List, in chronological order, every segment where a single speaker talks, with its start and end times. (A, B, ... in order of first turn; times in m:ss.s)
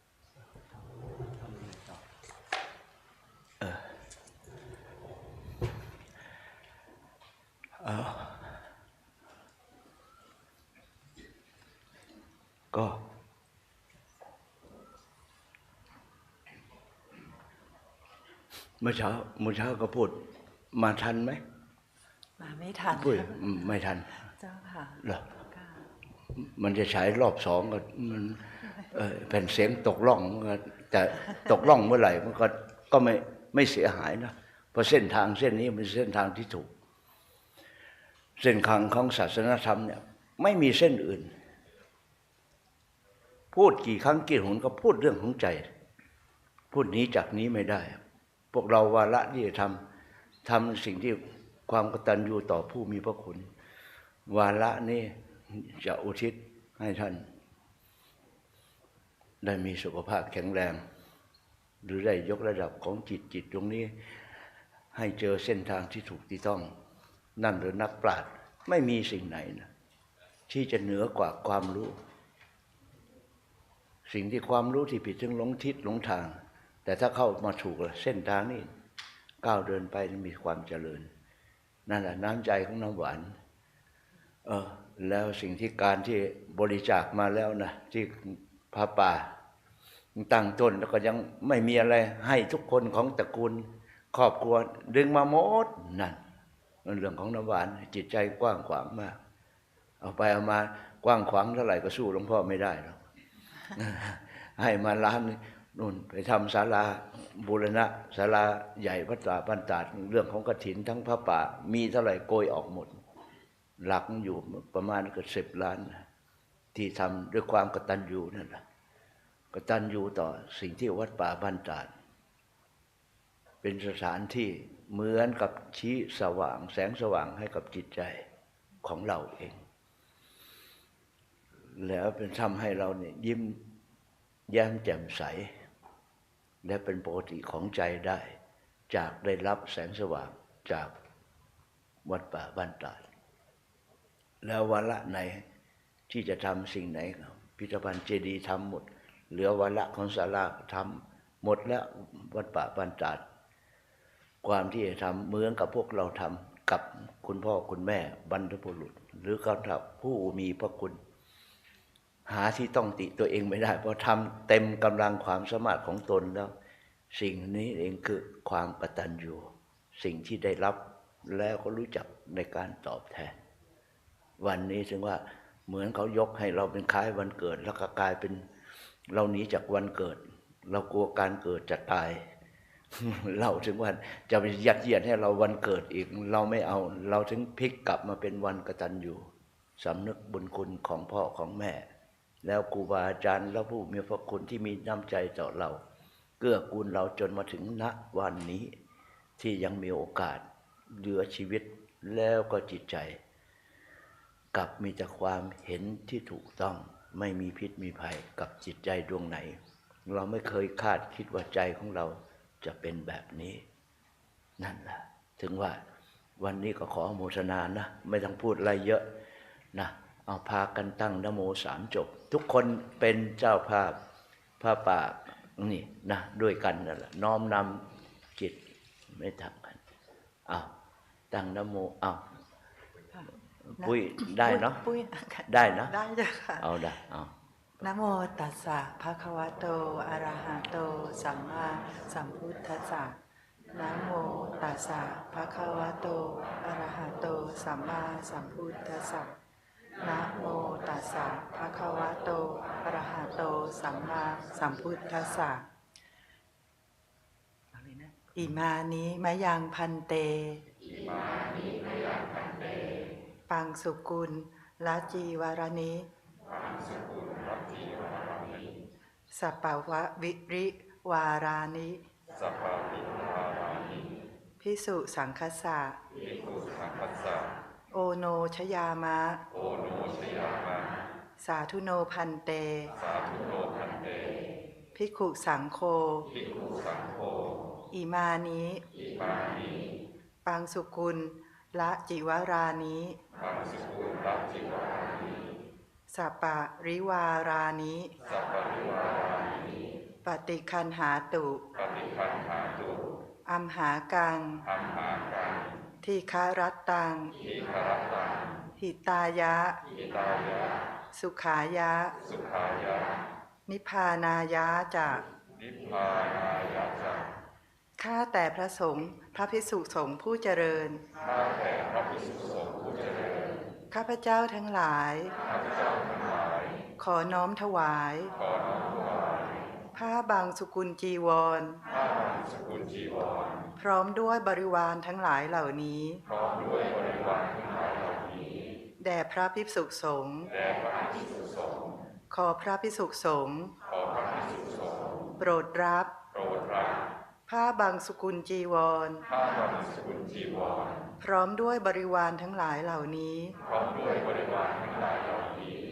0:03.6-0:03.9 A
0:07.8-0:08.6 A
0:12.7-0:13.0 A
0:18.8-0:20.2 A
0:20.7-0:21.4 A
0:22.4-0:23.5 B
0:22.9-0:24.2 A
0:24.3-0:25.9 B
0:25.0-0:25.3 A
0:26.3-0:36.7 A
0:38.4-0:41.3 A
0:43.5-0:45.7 A
0:46.7-0:48.0 A
0:48.5-0:49.8 A
0:50.4-0:53.5 A
0:54.3-0:57.3 A
0:59.4-1:00.8 A
1:01.8-1:03.9 A
1:04.9-1:06.7 A
1:07.4-1:09.7 A
1:10.5-1:12.0 A
1:14.1-1:18.7 A
1:19.4-1:21.1 A
1:21.9-1:23.3 A
1:24.4-1:29.3 A
1:30.2-1:36.2 A
1:36.8-1:39.2 A
1:40.0-1:43.0 A
1:43.7-1:53.0 A
1:53.8-1:56.0 A
1:56.7-1:58.6 A
1:59.5-2:01.9 A
2:03.6-2:08.2 A
2:08.8-2:09.6 A
2:11.7-2:13.7 A
2:14.5-2:15.5 A
2:16.6-2:18.4 A
2:18.9-2:20.9 A
2:22.0-2:23.1 A
2:24.4-2:25.4 A
2:26.1-2:33.2 A
2:34.4-2:41.0 A
2:42.3-2:46.5 A
2:47.1-2:53.3 A
2:54.4-2:58.5 A
2:59.1-3:02.2 A
3:02.9-3:11.9 A
3:12.4-3:15.8 A
3:16.4-3:18.8 A
3:19.4-3:23.2 A
3:24.5-3:33.6 A
3:34.6-3:35.8 A
3:36.4-3:39.1 A
3:39.7-3:44.0 A
3:44.6-3:47.8 A
3:48.4-3:49.8 A
3:51.3-3:52.2 A
3:53.1-3:56.7 B
3:53.8-3:54.8 A
3:55.5-3:56.0 A
3:56.6-3:57.3 A
3:57.8-4:03.2 B
4:03.7-4:09.4 B
4:10.0-4:15.7 B
4:17.7-4:20.6 B
4:23.5-4:26.1 B
4:27.0-4:28.6 C
4:29.3-4:32.0 B
4:32.6-4:33.8 C
4:34.6-4:36.0 B
4:36.7-4:37.4 C
4:37.9-4:39.4 B
4:39.8-4:40.7 C
4:41.4-4:43.0 B
4:43.3-4:44.1 C
4:45.0-4:46.3 B
4:47.9-4:49.0 B
4:50.4-4:53.2 B
4:53.7-4:54.6 C
4:56.1-4:58.2 B
4:58.7-4:59.2 C
5:00.2-5:01.6 B
5:02.0-5:02.9 C
5:03.5-5:04.7 B
5:06.0-5:07.4 B
5:08.8-5:09.8 B
5:11.1-5:12.2 B
5:13.7-5:15.3 B
5:15.8-5:17.1 C
5:18.0-5:21.0 B
5:21.7-5:23.2 C
5:23.9-5:25.4 B
5:27.0-5:28.4 B
5:29.9-5:31.8 B
5:32.6-5:33.3 C
5:33.8-5:36.2 B
5:36.5-5:38.4 C
5:39.0-5:40.6 B
5:41.0-5:41.4 C
5:42.3-5:43.7 B
5:44.2-5:44.8 C
5:45.4-5:46.2 B
5:47.5-5:49.3 B
5:49.7-5:50.7 C
5:51.2-5:53.6 B
5:53.9-5:55.6 C